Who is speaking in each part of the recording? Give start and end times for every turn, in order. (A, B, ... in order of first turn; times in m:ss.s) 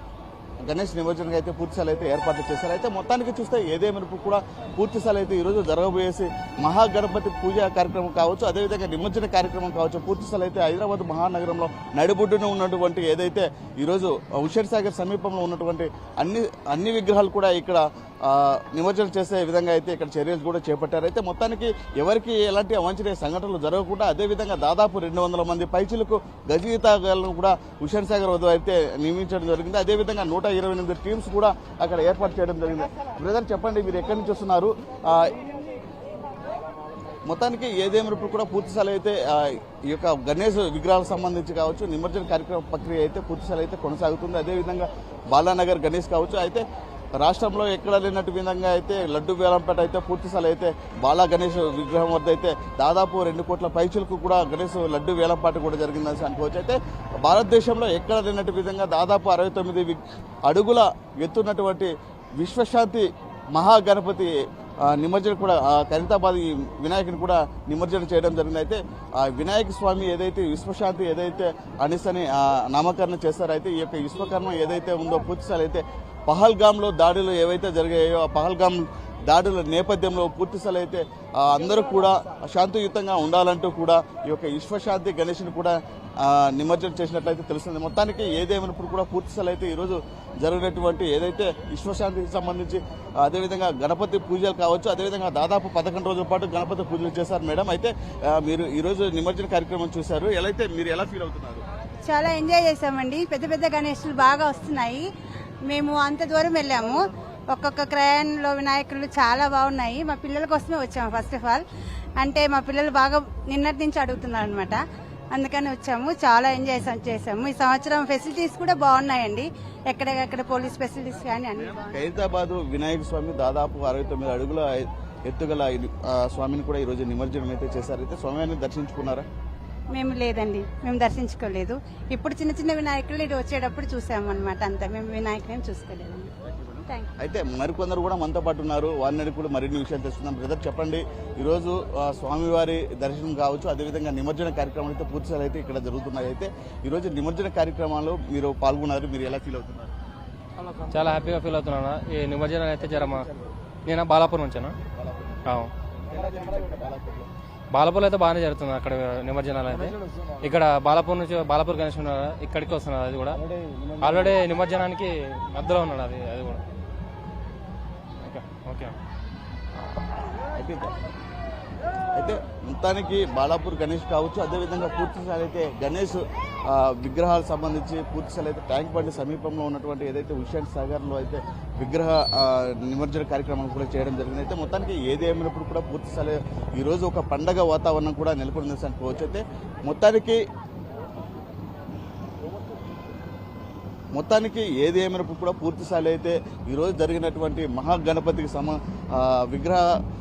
0:00.7-0:35.4 A
0:37.3-0:46.6 A
0:47.2-1:41.6 A
1:42.1-1:45.0 B
1:45.7-1:51.6 B
1:52.2-1:54.8 B
1:55.3-2:02.0 B
2:01.8-2:09.3 A
2:09.9-2:16.3 B
2:16.7-2:29.9 A
2:30.9-2:33.3 C
2:33.9-2:34.8 C
2:35.5-2:35.7 C
2:36.4-2:37.2 A
2:37.7-2:43.4 C
2:44.0-2:46.6 C
2:48.2-2:49.0 C
2:50.5-2:50.9 A
2:52.1-3:10.4 A
3:14.1-3:19.9 A